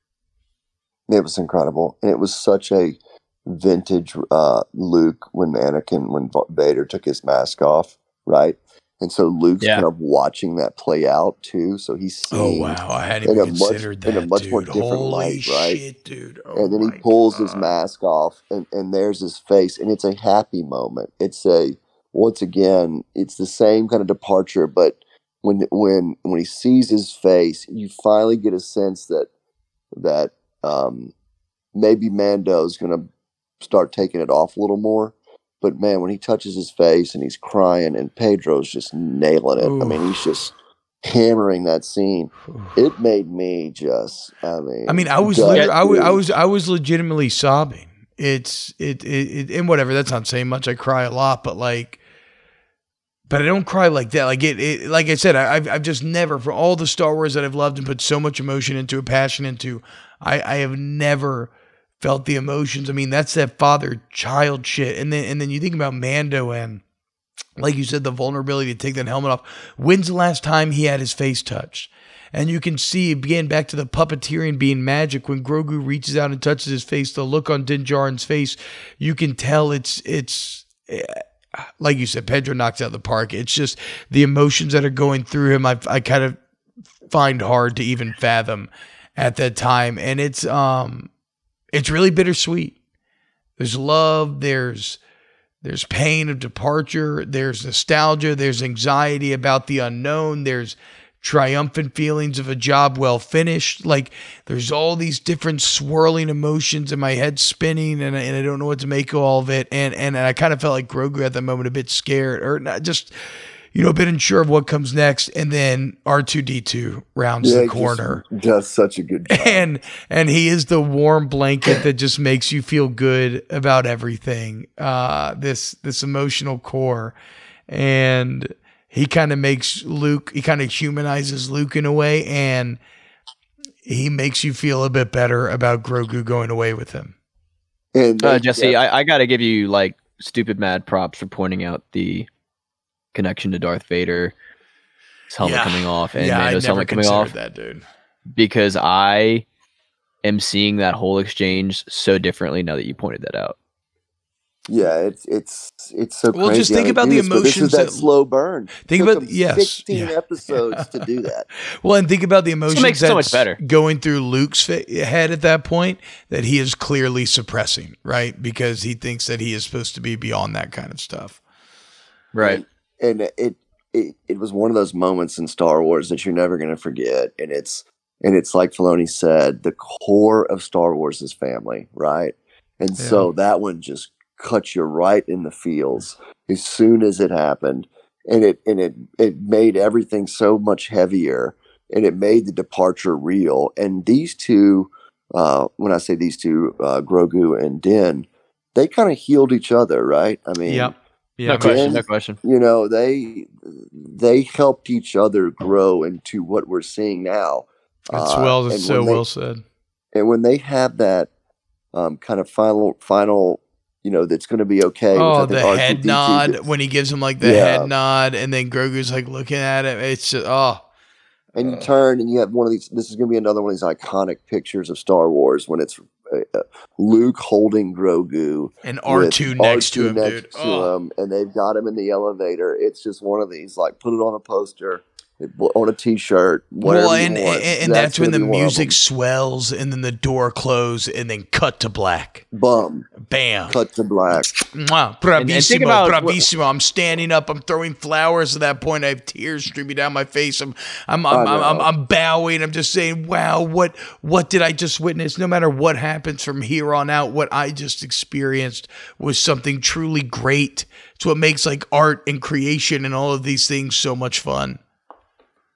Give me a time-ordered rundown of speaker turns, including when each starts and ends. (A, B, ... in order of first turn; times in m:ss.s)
0:01.1-0:15.8 A
0:09.6-0:09.8 B
0:12.3-0:17.7 C
0:16.5-0:29.3 A
0:29.9-0:31.1 A
0:31.7-0:33.1 A
0:33.6-0:46.2 A
0:39.6-0:40.2 C
0:44.9-0:52.0 C
0:53.3-1:06.8 C
1:07.6-1:26.4 C
1:27.1-1:31.1 C
1:31.7-1:32.8 C
1:33.6-1:35.0 C
1:35.6-1:53.1 C
1:53.7-1:58.2 C
1:57.4-1:59.6 A
1:59.3-2:07.1 C
2:07.7-2:12.8 C
2:13.8-2:17.1 C
2:17.9-2:18.8 A
2:18.2-2:22.3 B
2:23.1-2:24.3 B
2:25.3-2:27.3 B
2:25.4-2:27.8 C
2:28.3-2:29.4 B
2:30.2-2:33.6 B
2:34.7-2:41.4 A
2:36.3-2:38.1 C
2:38.8-2:41.1 C
2:41.8-2:51.4 C
2:42.7-2:43.6 B
2:52.3-2:52.6 B
2:52.4-3:20.9 A
3:03.0-3:03.3 C
3:20.6-3:22.0 C
3:21.4-3:22.4 B
3:21.5-3:29.2 A
3:28.1-3:29.6 C
3:30.1-3:31.3 A
3:31.9-3:36.6 A
3:35.1-3:40.8 C
3:37.4-3:37.9 A
3:41.5-3:58.9 A
3:41.6-3:41.9 C
3:48.8-3:50.9 C
3:56.8-4:02.4 C
4:02.5-4:03.1 A
4:03.2-4:03.8 C
4:03.7-4:04.5 A
4:04.3-4:24.8 C
4:05.4-4:06.4 B
4:11.3-4:11.9 A